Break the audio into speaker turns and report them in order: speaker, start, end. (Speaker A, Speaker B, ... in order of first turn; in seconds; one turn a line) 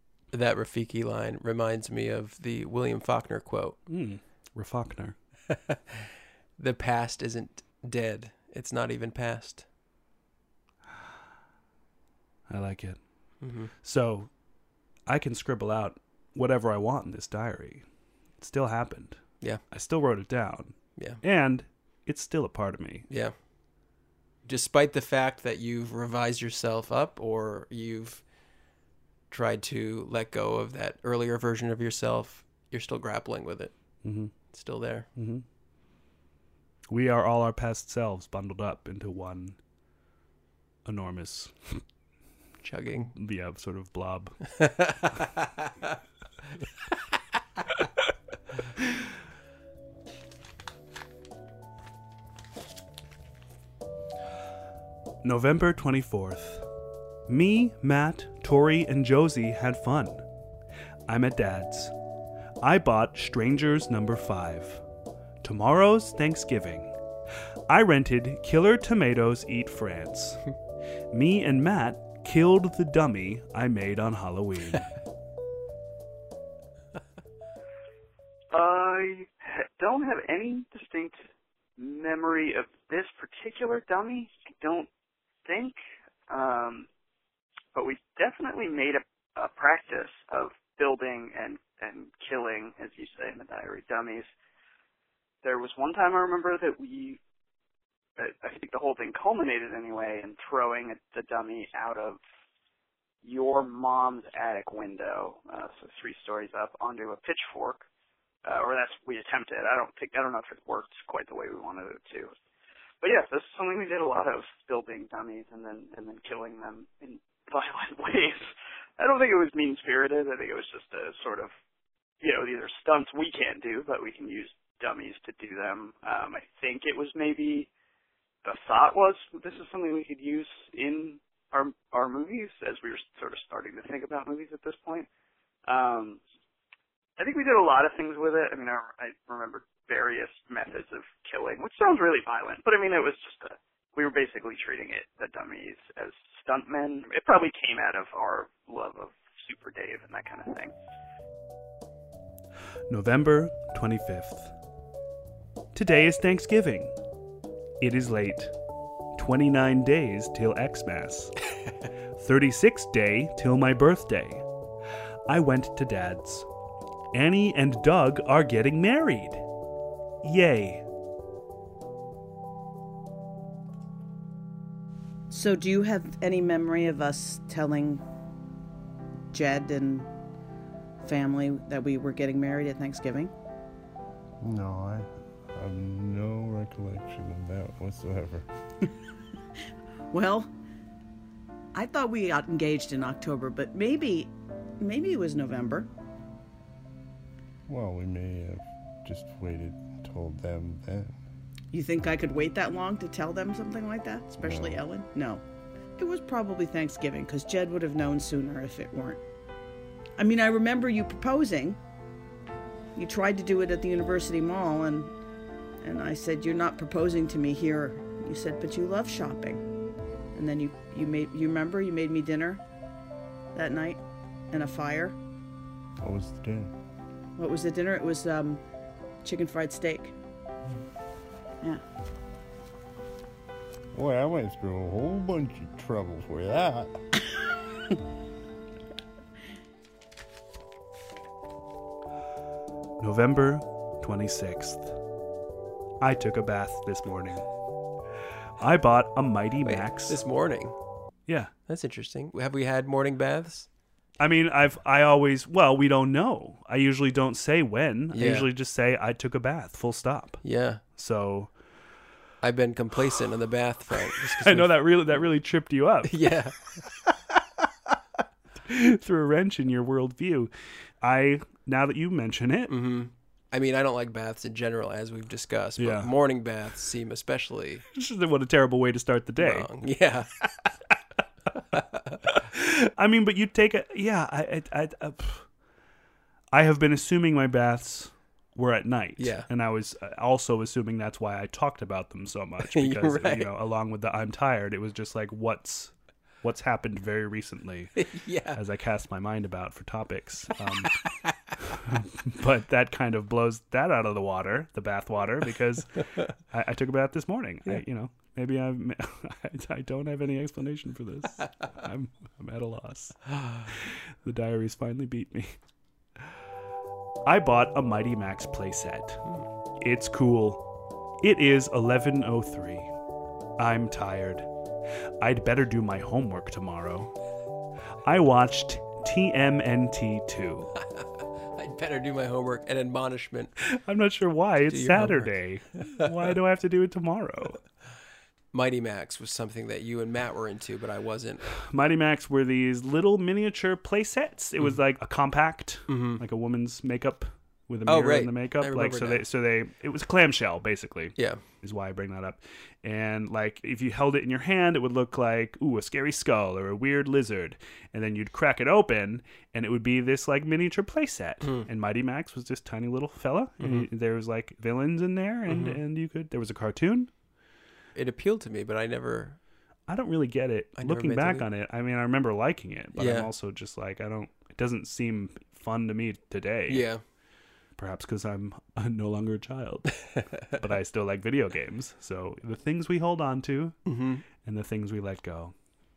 Speaker A: 0.3-3.8
Speaker B: 3.9-5.1
Speaker A: 5.5-6.0
Speaker A: 6.6-9.6
Speaker B: 12.5-13.0
Speaker A: 13.4-13.7
Speaker B: 13.7-14.3
Speaker B: 15.1-17.8
Speaker B: 18.4-23.1
Speaker A: 23.1-23.3
Speaker A: 24.4-28.2
Speaker A: 29.3-33.7
Speaker B: 34.0-34.3
Speaker A: 34.5-35.1
Speaker B: 35.1-35.4
Speaker B: 36.9-39.6
Speaker B: 40.9-41.8
Speaker A: 42.6-43.1
Speaker B: 43.1-44.6
Speaker A: 44.6-45.4
Speaker B: 55.2-56.6
Speaker B: 57.3-60.2
Speaker B: 61.1-61.9
Speaker B: 62.6-64.8
Speaker B: 65.4-66.9
Speaker B: 67.7-70.4
Speaker B: 71.1-74.9
Speaker C: 78.5-81.2
Speaker C: 81.8-84.9
Speaker C: 85.4-85.8
Speaker C: 86.3-86.9
Speaker C: 87.7-94.3
Speaker C: 95.4-97.2
Speaker C: 98.2-102.2
Speaker C: 103.2-107.8
Speaker C: 108.4-112.3
Speaker C: 113.0-118.5
Speaker C: 119.0-121.5
Speaker C: 122.2-127.7
Speaker C: 128.4-135.1
Speaker C: 135.7-136.2
Speaker C: 137.2-150.7
Speaker B: 152.9-154.5
Speaker B: 155.7-156.9
Speaker B: 157.8-158.5
Speaker B: 159.1-161.4
Speaker B: 162.2-164.4
Speaker B: 165.3-166.4
Speaker B: 167.1-169.4
Speaker B: 170.2-170.8
Speaker D: 175.3-178.0
Speaker D: 179.3-180.1
Speaker D: 181.0-183.3
Speaker E: 184.4-188.4
Speaker D: 190.1-190.5
Speaker D: 191.7-195.9
Speaker E: 197.7-201.2
Speaker D: 201.7-205.4
Speaker E: 204.4-204.8
Speaker D: 206.0-209.2
Speaker D: 210.2-211.8
Speaker D: 212.9-215.1
Speaker D: 215.8-219.6
Speaker D: 220.3-222.6
Speaker D: 223.5-225.2
Speaker E: 226.0-226.7
Speaker D: 227.4-228.6
Speaker D: 229.2-230.1
Speaker E: 233.9-236.9
Speaker B: 243.0-244.9
Speaker B: 246.0-247.4
Speaker B: 248.6-250.2
Speaker A: 249.6-250.7
Speaker A: 251.7-253.7
Speaker B: 254.2-260.4
Speaker A: 258.1-258.5
Speaker A: 260.4-260.8
Speaker B: 260.9-261.5
Speaker A: 262.4-264.7
Speaker B: 264.4-266.3
Speaker A: 266.0-266.6
Speaker B: 268.7-272.7
Speaker A: 272.7-277.8
Speaker B: 275.8-276.1
Speaker B: 277.9-279.7
Speaker A: 279.4-280.3
Speaker A: 281.8-282.2
Speaker B: 282.2-285.4
Speaker B: 286.5-295.9
Speaker A: 289.2-289.5
Speaker A: 292.7-293.5
Speaker B: 296.4-301.1
Speaker A: 298.0-298.6
Speaker B: 301.6-315.6
Speaker B: 317.2-319.2
Speaker B: 319.8-320.6
Speaker B: 321.2-322.9
Speaker B: 323.6-324.5
Speaker B: 325.2-327.1
Speaker B: 328.0-330.7
Speaker A: 330.8-333.5
Speaker B: 333.6-337.6
Speaker A: 334.7-335.3
Speaker A: 338.5-341.5
Speaker B: 341.5-367.1
Speaker A: 345.9-346.2
Speaker A: 347.9-349.2
Speaker A: 363.6-363.9
Speaker A: 365.5-365.8
Speaker A: 367.9-369.4
Speaker B: 369.9-376.9
Speaker A: 370.8-371.4
Speaker A: 373.0-373.3
Speaker A: 376.7-377.0
Speaker B: 377.8-383.8
Speaker A: 383.9-384.2
Speaker B: 384.4-385.5